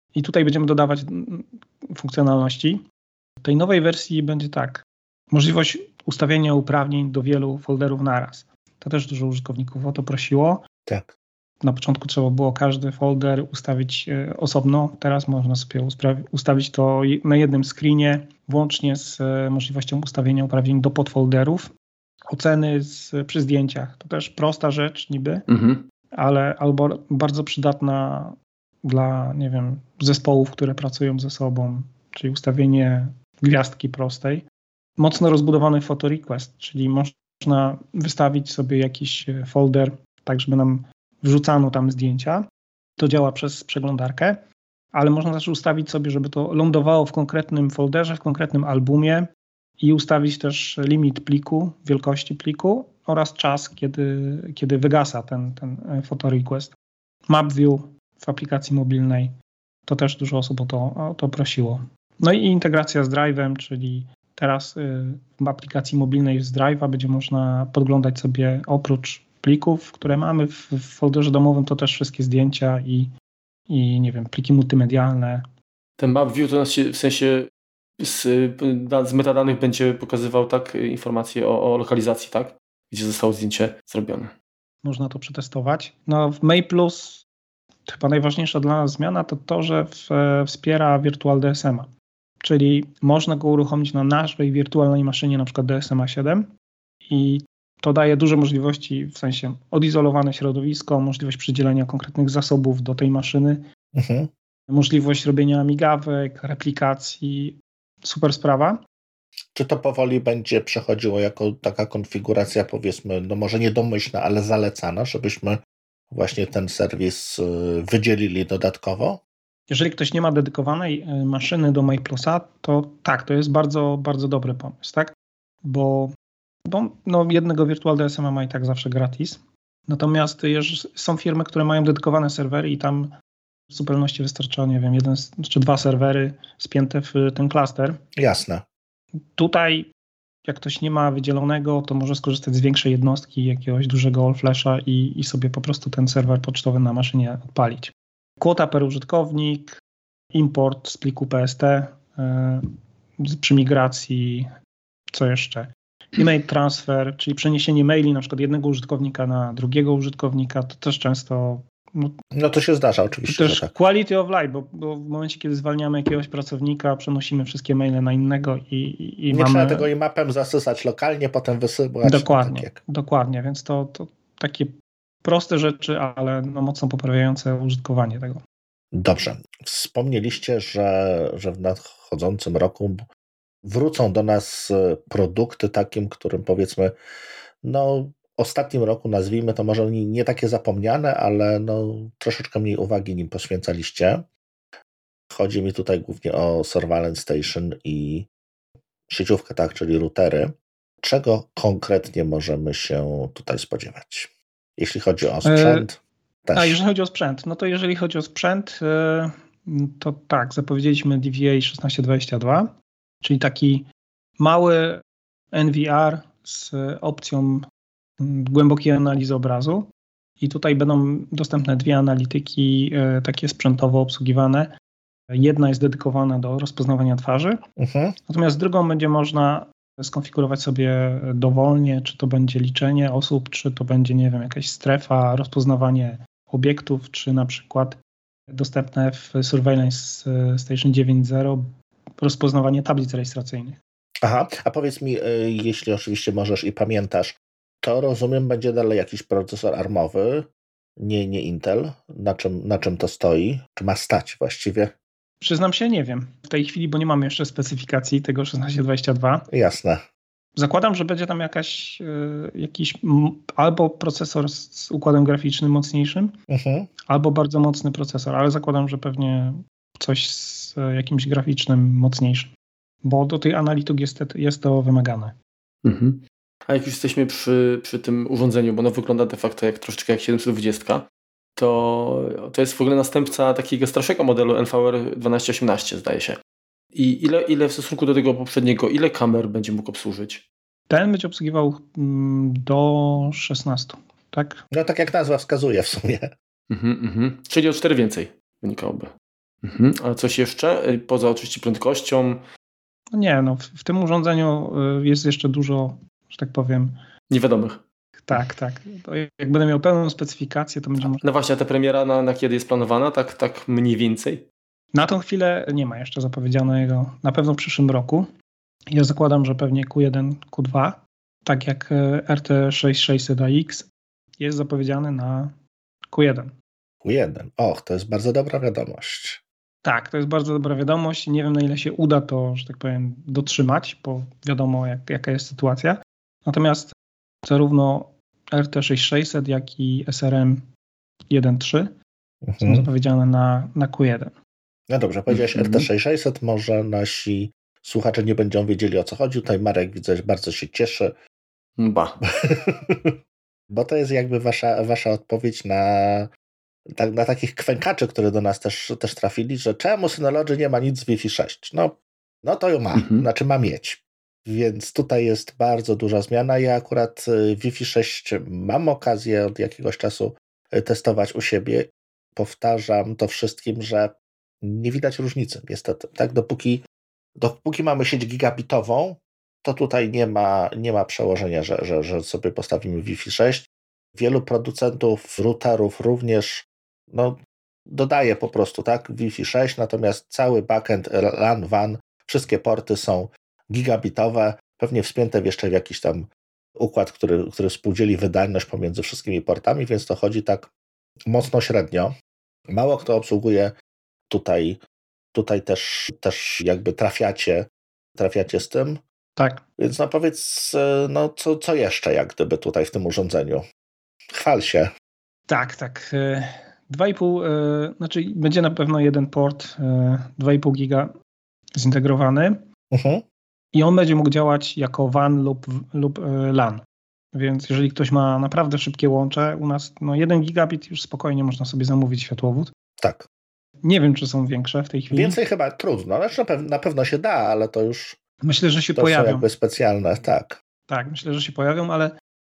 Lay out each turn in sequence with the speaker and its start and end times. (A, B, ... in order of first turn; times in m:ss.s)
0:00.2-0:02.8 A
0:03.4-0:10.6 A
0:11.6-0:21.7 A
0:22.3-0:25.4 A
0:25.5-0:25.8 B
0:26.1-0:34.4 A
0:35.0-0:42.4 A
0:43.0-0:44.4 A
0:44.9-0:49.3 A
0:49.8-0:56.8 A
0:57.3-0:59.3 A
0:59.9-1:13.1 A
1:13.7-1:15.4 A
1:16.0-1:24.3 B
1:24.8-1:27.2 A
1:27.9-1:31.9 A
1:32.4-1:36.5 A
1:37.1-1:43.6 A
1:43.9-1:44.3 C
1:44.7-1:48.8 A
1:49.6-1:55.6 C
1:56.1-1:59.2 C
1:59.7-2:05.1 A
2:05.6-2:06.1 A
2:06.7-2:13.1 A
2:13.7-2:18.0 A
2:18.2-2:18.6 C
2:19.3-2:19.9 A
2:20.4-2:29.8 A
2:30.3-2:32.7 A
2:33.2-2:34.5 A
2:35.1-2:42.1 A
2:42.3-2:43.7 C
2:43.3-2:49.9 A
2:49.3-2:52.8 C
2:52.0-2:58.4 A
2:58.9-3:03.0 C
3:03.6-3:06.9 C
3:07.6-3:14.2 C
3:15.3-3:18.3 C
3:19.1-3:26.8 C
3:25.4-3:25.9 A
3:26.6-3:33.9 A
3:34.4-3:35.0 A
3:35.5-3:37.6 A
3:38.2-3:39.9 A
3:40.4-3:44.7 A
3:45.3-3:47.6 A
3:47.8-3:48.2 C
3:48.3-3:58.0 A
3:58.5-4:01.6 A
4:02.2-4:03.8 A
4:04.2-4:14.9 C
4:15.4-4:19.5 A
4:19.5-4:20.0 C
4:20.6-4:26.3 A
4:26.5-4:26.9 C
4:27.1-4:32.5 A
4:33.0-4:35.4 A
4:35.8-4:41.1 B
4:41.6-4:46.4 B
4:47.0-4:50.4 B
4:50.9-4:54.6 A
4:54.7-4:56.3 C
4:56.7-4:59.1 B
4:59.6-5:02.4 B
5:03.1-5:07.0 A
5:07.3-5:07.8 B
5:08.2-5:11.2 A
5:11.0-5:14.4 B
5:14.9-5:18.3 A
5:18.9-5:23.9 A
5:24.4-5:25.5 A
5:26.1-5:26.5 A
5:27.0-5:29.4 C
5:29.8-5:36.9 A
5:37.5-5:40.7 A
5:41.3-5:41.9 A
5:42.4-5:42.9 C
5:42.6-5:44.3 A
5:44.9-5:51.1 C
5:45.3-5:45.9 B
5:51.8-5:52.2 B
5:52.4-5:53.2 C
5:53.7-5:56.3 C
5:56.9-6:16.8 C
6:03.0-6:03.2 B
6:17.4-6:27.4 C
6:27.9-6:40.7 C
6:41.3-6:42.1 C
6:42.7-6:43.7 C
6:44.3-6:44.8 C
6:45.3-6:49.0 C
6:49.4-6:49.6 A
6:49.8-6:53.6 C
6:54.3-6:54.9 C
6:55.5-7:01.1 A
7:01.8-7:02.6 A
7:02.9-7:03.2 C
7:03.7-7:12.7 A
7:13.0-7:13.3 C
7:13.8-7:15.4 A
7:15.1-7:18.2 C
7:18.4-7:19.4 A
7:19.0-7:20.6 C
7:20.9-7:22.2 A